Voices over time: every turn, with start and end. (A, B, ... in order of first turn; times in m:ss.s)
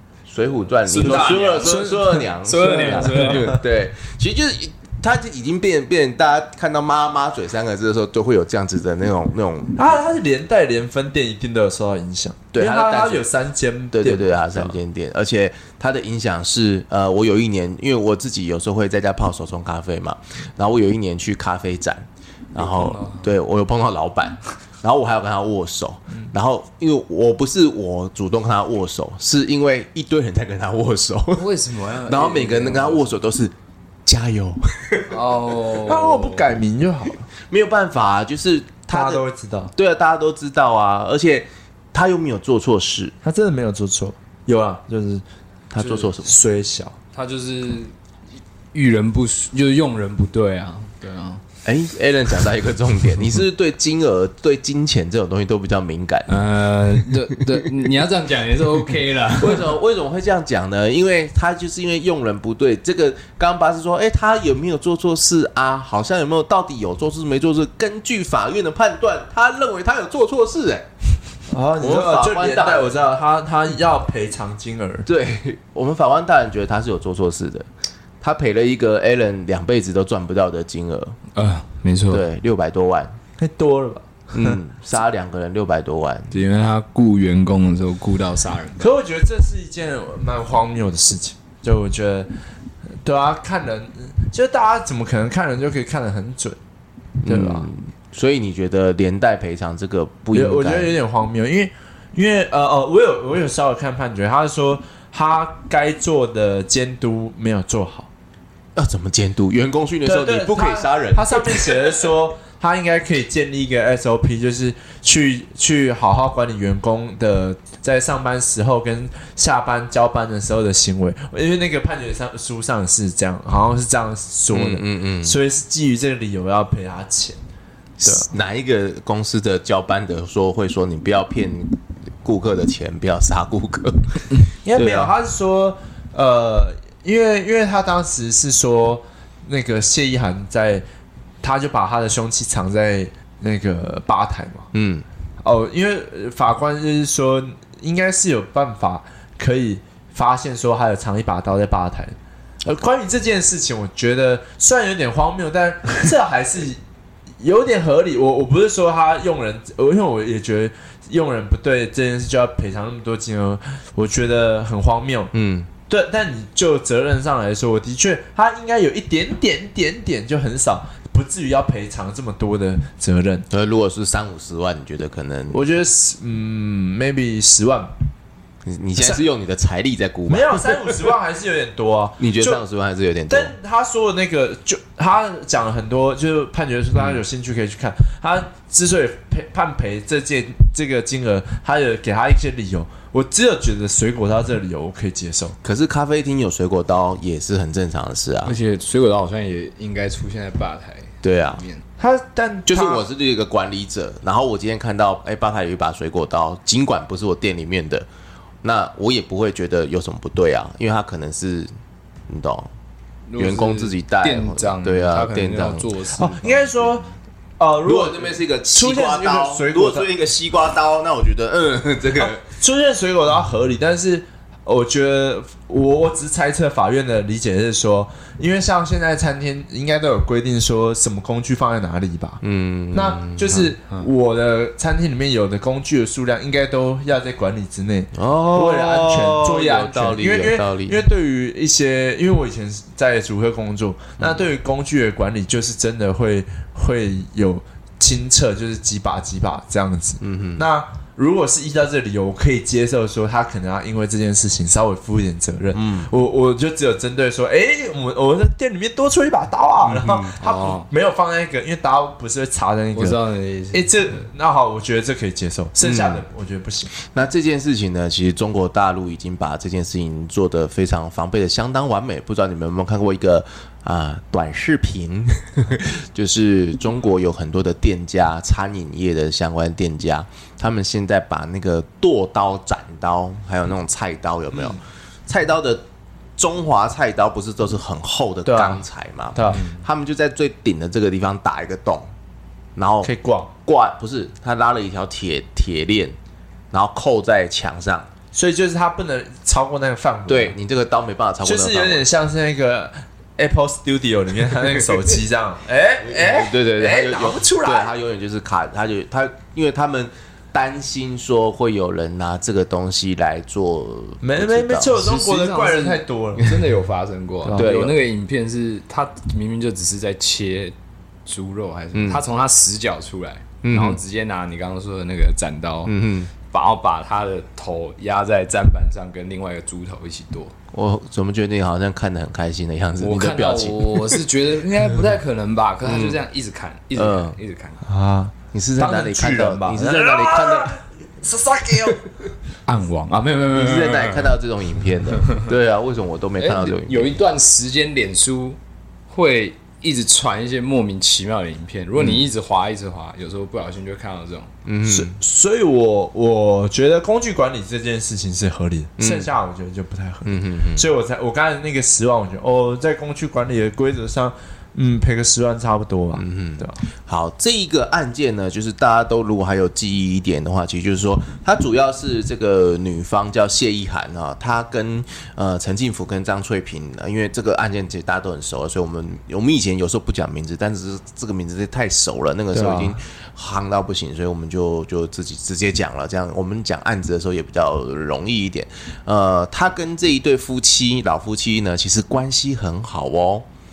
0:00.3-0:09.8 A
0:00.9-0:03.6 B
0:00.9-0:03.6 C
0:09.8-0:14.8 B
0:12.5-0:13.3 A
0:13.9-0:31.5 A
0:22.6-0:23.3 C
0:31.3-0:33.2 C
0:32.0-0:33.5 A
0:34.1-0:35.1 A
0:35.1-0:36.5 C
0:35.8-0:37.3 B
0:37.5-0:39.2 A
0:38.9-0:39.7 B
0:39.8-0:43.2 A
0:43.2-0:45.2 B
0:45.7-0:46.4 A
0:45.8-0:47.0 B
0:47.1-0:47.9 C
0:48.7-0:51.4 C
0:51.6-0:56.3 A
0:56.3-0:59.8 C
0:59.4-1:10.9 A
1:11.5-1:15.1 B
1:11.8-1:12.9 A
1:15.1-1:17.7 A
1:18.2-1:21.2 A
1:21.4-1:22.2 C
1:22.1-1:23.2 A
1:23.4-1:24.6 B
1:24.3-1:26.4 A
1:26.3-1:28.9 C
1:28.8-1:32.3 B
1:33.0-1:36.6 B
1:37.2-1:40.9 A
1:37.2-1:37.7 B
1:40.3-1:48.1 B
1:48.8-1:51.9 A
1:50.0-2:07.4 B
2:04.5-2:05.4 A
2:08.0-2:15.1 A
2:14.6-2:20.8 B
2:21.4-2:24.7 B
2:24.7-2:25.0 A
2:25.4-2:36.8 B
2:37.4-2:45.3 B
2:45.3-2:45.7 A
2:45.9-2:53.5 B
2:53.5-2:55.6 A
2:55.5-2:57.9 B
2:58.6-3:01.0 A
2:59.0-2:59.2 B
3:00.3-3:02.6 B
3:02.2-3:03.5 A
3:03.3-3:15.6 B
3:07.0-3:07.2 A
3:15.6-3:18.6 A
3:18.4-3:21.8 C
3:21.2-3:21.6 A
3:22.0-3:23.1 B
3:22.7-3:28.1 A
3:28.6-3:31.7 A
3:32.3-3:32.7 A
3:33.3-3:37.1 C
3:33.4-3:35.9 A
3:36.1-3:37.0 B
3:37.6-3:40.1 B
3:37.8-3:42.4 A
3:42.4-3:52.4 B
3:52.4-3:53.7 A
3:52.9-4:23.2 B
3:58.1-4:01.0 A
4:10.2-4:10.6 A
4:15.7-4:16.1 A
4:19.8-4:20.4 A
4:20.4-4:20.9 C
4:22.9-4:23.9 C
4:23.7-4:26.9 B
4:25.8-4:26.2 A
4:27.1-4:45.8 A
4:46.4-4:52.1 A
4:48.5-4:49.6 B
4:52.8-4:53.1 A
4:53.0-4:53.5 B
4:53.6-4:56.2 A
4:56.7-4:58.1 A
4:58.3-5:00.6 B
5:00.3-5:02.0 A
5:01.4-5:07.9 B
5:06.0-5:15.0 A
5:14.2-5:16.7 B
5:15.0-5:20.8 C
5:17.4-5:17.7 B
5:17.6-5:18.0 A
5:21.3-5:30.5 C
5:21.9-5:22.2 A
5:23.6-5:24.0 A
5:25.9-5:26.3 A
5:30.7-5:34.1 A
5:33.0-5:37.9 C
5:35.8-5:36.2 A
5:37.0-5:37.4 A
5:37.9-5:42.0 B
5:38.5-5:40.7 A
5:42.7-5:44.4 C
5:43.5-5:47.1 A
5:46.4-5:48.6 C
5:49.1-5:54.5 C
5:52.0-5:52.2 A
5:54.6-5:55.2 A
5:54.9-6:06.8 B
5:59.0-5:59.3 A
6:00.2-6:00.9 A
6:06.1-6:33.4 A
6:22.5-6:23.0 B